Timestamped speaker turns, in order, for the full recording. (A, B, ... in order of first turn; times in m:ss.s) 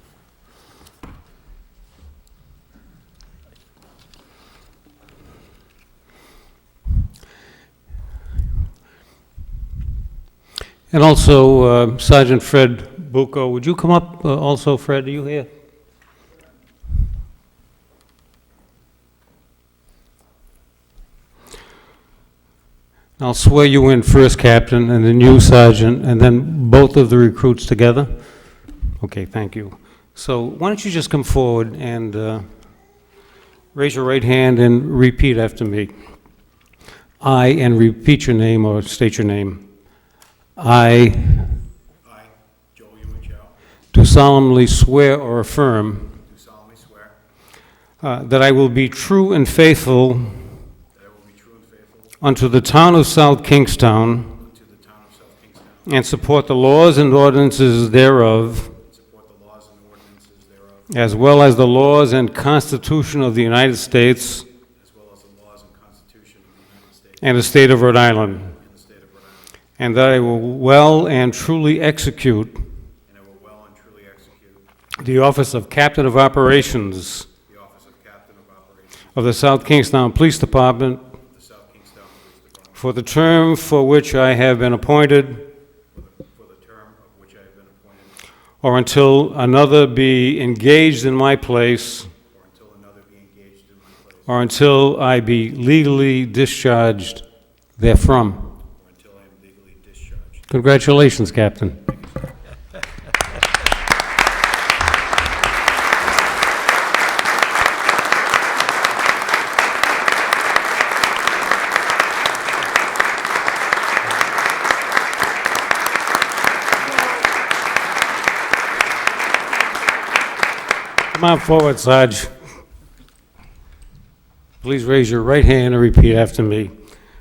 0:10.9-0:15.5 A
0:23.2-0:28.2 A
0:29.0-0:32.5 A
0:33.7-0:35.9 A
0:37.2-0:39.6 A
0:40.6-0:41.6 A
0:42.0-0:43.6 B
0:43.9-0:46.2 A
0:46.2-0:47.2 B
0:48.0-0:50.4 A
0:50.9-0:52.2 B
0:52.2-0:54.4 A
0:54.4-0:56.0 B
0:55.8-0:58.7 A
0:58.8-1:00.9 B
1:00.9-1:04.4 A
1:04.8-1:07.3 B
1:07.2-1:08.5 A
1:08.5-1:09.5 B
1:09.8-1:12.6 A
1:13.1-1:14.6 B
1:15.0-1:17.3 A
1:17.5-1:19.2 B
1:19.2-1:21.0 A
1:21.3-1:22.9 B
1:22.8-1:25.5 A
1:25.9-1:28.1 B
1:28.6-1:32.1 A
1:32.3-1:34.4 B
1:34.3-1:37.2 A
1:37.8-1:38.5 A
1:38.7-1:40.5 B
1:40.5-1:41.9 A
1:41.9-1:42.4 B
2:01.1-2:02.3 A
2:04.6-2:06.7 A